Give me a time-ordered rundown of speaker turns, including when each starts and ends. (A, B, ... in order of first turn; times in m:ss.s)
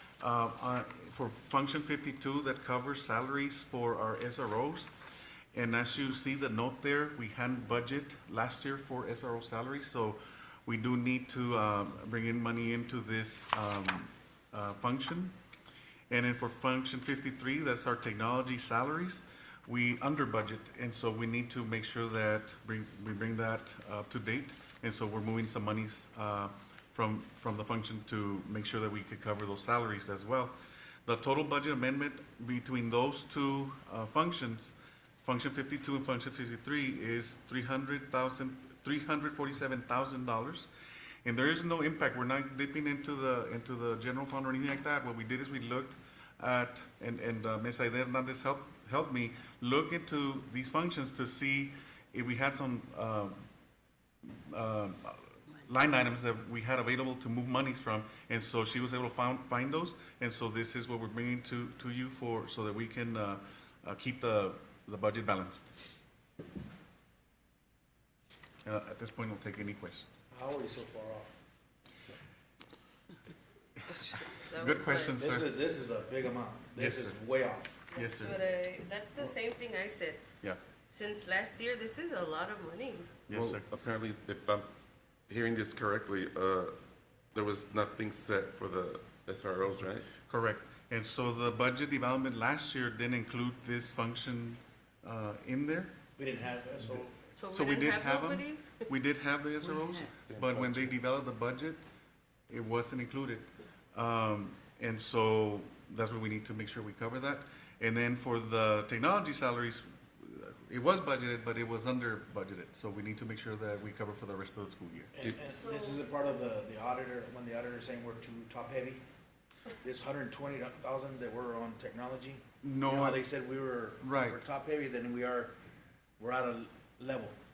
0:00.2-0:05.0 A
0:05.5-0:15.3 A
0:16.1-0:30.5 A
0:31.0-0:40.7 A
0:41.2-0:53.4 A
0:54.2-1:05.7 A
1:08.6-1:10.1 A
1:10.3-1:11.4 B
1:13.9-1:15.2 C
1:14.5-1:15.5 A
1:15.2-1:17.8 B
1:16.8-1:17.2 A
1:17.9-1:20.2 C
1:17.9-1:18.4 A
1:20.9-1:23.2 C
1:23.3-1:23.7 A
1:23.3-1:24.7 D
1:25.3-1:26.8 D
1:27.3-1:30.1 D
1:30.2-1:35.9 A
1:36.2-1:37.2 B
1:37.4-1:38.8 C
1:37.5-1:41.8 A
1:40.3-1:41.0 D
1:42.5-1:55.1 A
1:55.1-1:59.0 B
1:55.2-1:55.4 D
1:55.5-1:56.0 C
1:59.8-2:05.5 B
2:02.6-2:03.2 A
2:04.0-2:04.4 A
2:06.2-2:07.4 B